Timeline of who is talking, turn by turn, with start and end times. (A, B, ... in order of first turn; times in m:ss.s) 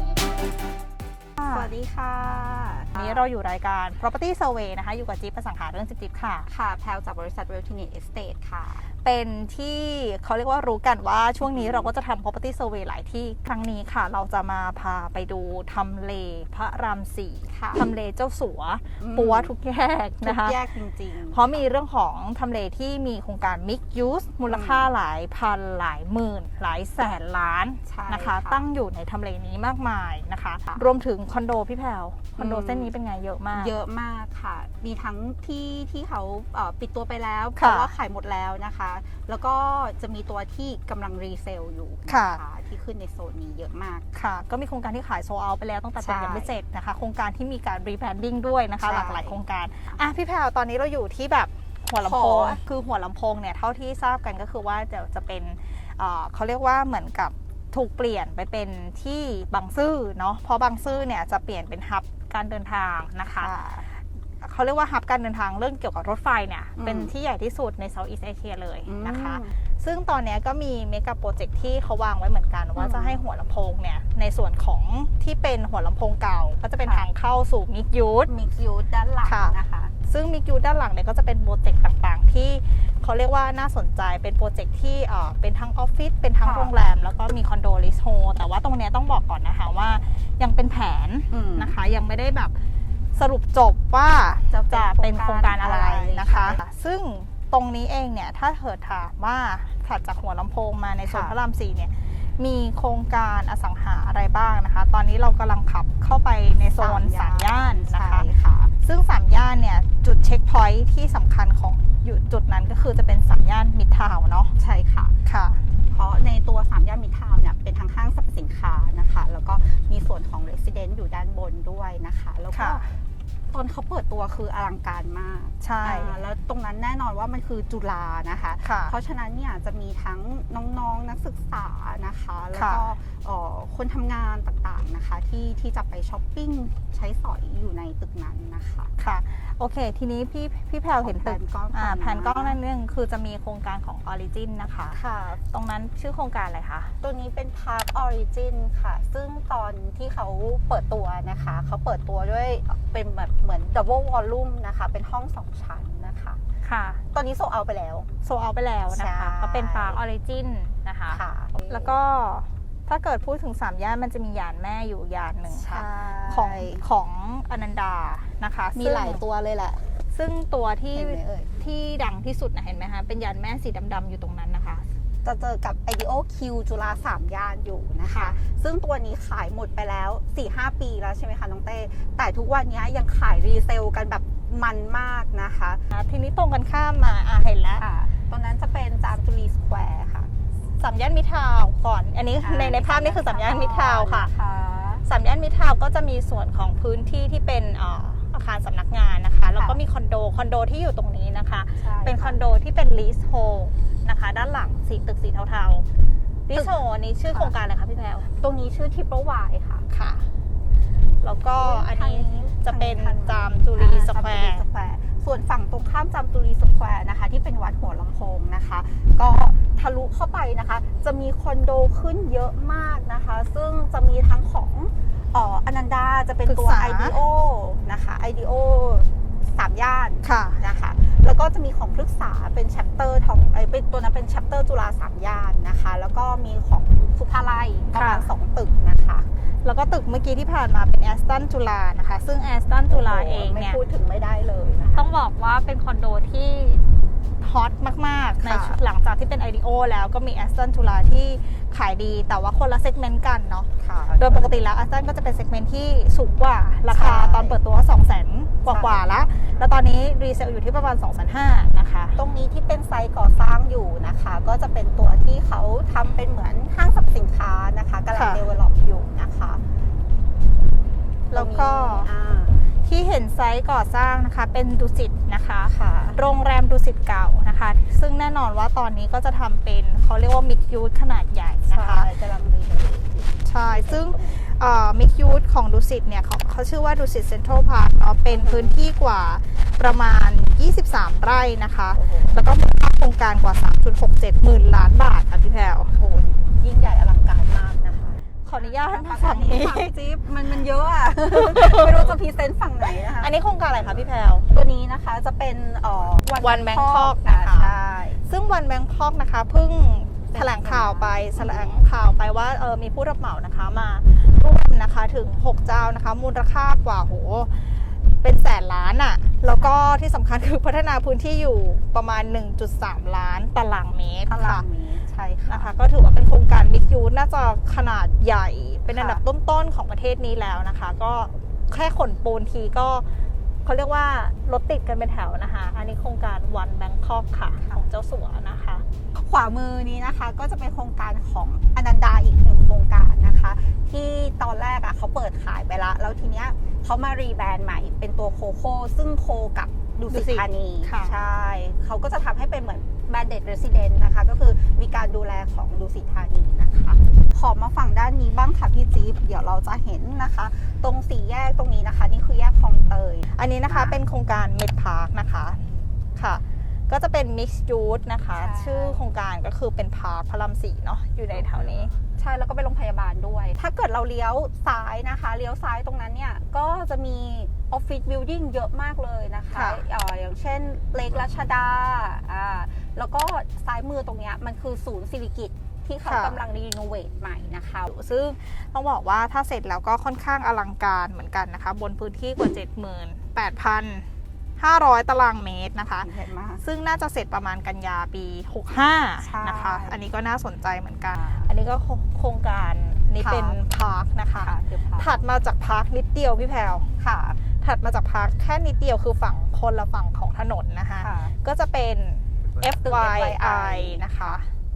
0:01.4-0:03.3 A
0:03.0-0:06.5 B
0:06.5-0:08.9 A
0:08.9-0:20.6 B
0:11.4-0:11.9 A
0:17.5-0:17.9 A
0:19.0-0:19.5 A
0:20.2-0:21.6 A
0:21.3-0:33.7 B
0:24.5-0:24.9 A
0:27.9-0:28.6 A
0:32.4-0:32.9 A
0:33.5-0:44.1 A
0:37.6-0:37.9 B
0:42.1-0:42.4 B
0:44.1-1:18.3 B
0:46.0-0:46.5 A
0:48.8-0:50.0 A
0:52.0-0:52.6 A
1:03.3-1:03.9 A
1:06.8-1:07.1 A
1:08.8-1:09.5 A
1:12.8-1:13.2 A
1:18.3-1:19.9 A
1:19.2-1:32.6 B
1:26.4-1:26.7 A
1:31.3-1:31.8 A
1:33.1-1:54.5 B
1:34.5-1:36.6 A
1:41.0-1:41.4 A
1:46.8-1:48.7 A
1:54.6-1:55.2 A
1:55.2-1:55.6 B
1:55.9-2:18.9 A
2:02.5-2:02.8 B
2:05.6-2:06.1 B
2:08.6-2:08.9 B
2:12.6-2:12.8 B
2:19.0-2:27.0 B
2:21.0-2:22.6 A
2:24.9-2:25.4 A
2:27.0-2:36.4 A
2:36.6-2:37.0 B
2:37.1-2:38.1 A
2:38.2-2:49.2 B
2:38.9-2:40.0 A
2:41.1-2:42.0 A
2:45.5-2:46.8 A
2:48.7-2:49.9 A
2:50.1-2:54.9 B
2:50.9-2:51.6 A
2:55.2-3:05.8 A
2:58.1-2:58.4 B
3:05.9-3:07.8 B
3:07.8-3:10.3 A
3:10.8-3:14.3 B
3:12.4-3:15.0 A
3:15.0-3:25.9 B
3:19.5-3:19.8 A
3:21.8-3:22.4 A
3:26.5-3:28.3 B
3:26.5-3:27.5 A
3:28.4-3:29.9 A
3:29.9-3:30.3 B
3:31.2-3:34.6 B
3:31.5-3:59.3 A
3:46.5-3:47.2 B
3:50.2-3:50.6 B
3:57.9-3:58.3 B
3:59.6-4:03.8 B
4:02.9-4:05.1 A
4:05.0-4:06.8 B
4:07.4-4:22.2 B
4:08.4-4:08.8 A
4:13.8-4:14.7 A
4:16.9-4:17.6 A
4:18.6-4:19.7 A
4:22.2-4:29.6 A
4:28.1-4:28.4 B
4:31.3-4:32.1 B
4:31.3-4:32.6 A
4:32.7-4:42.1 B
4:35.6-4:36.2 A
4:41.7-4:44.4 A
4:43.4-4:56.0 B
4:48.3-4:48.8 A
4:51.9-4:52.4 A
4:56.0-5:03.3 A
4:58.4-4:59.9 B
5:01.3-5:02.1 B
5:02.8-5:04.5 B
5:04.5-5:08.2 A
5:06.4-5:07.7 B
5:08.2-5:24.6 B
5:10.3-5:11.8 A
5:19.5-5:20.0 A
5:24.3-5:25.7 A
5:25.5-5:33.1 B
5:28.9-5:29.2 A
5:33.6-5:38.8 B
5:39.1-6:04.0 A
5:50.1-5:51.1 B
6:03.3-6:11.9 B
6:08.3-6:09.0 A
6:12.2-6:27.9 A
6:19.5-6:19.8 B
6:26.1-6:26.4 B
6:27.9-6:36.1 B
6:36.0-6:36.6 A
6:36.6-6:46.9 B
6:39.2-6:40.0 A
6:41.1-6:41.5 A
6:43.2-6:43.6 A
6:44.4-6:45.2 A
6:47.0-6:47.4 A
6:47.6-6:54.5 B
6:51.0-6:51.3 A
6:52.8-6:54.2 A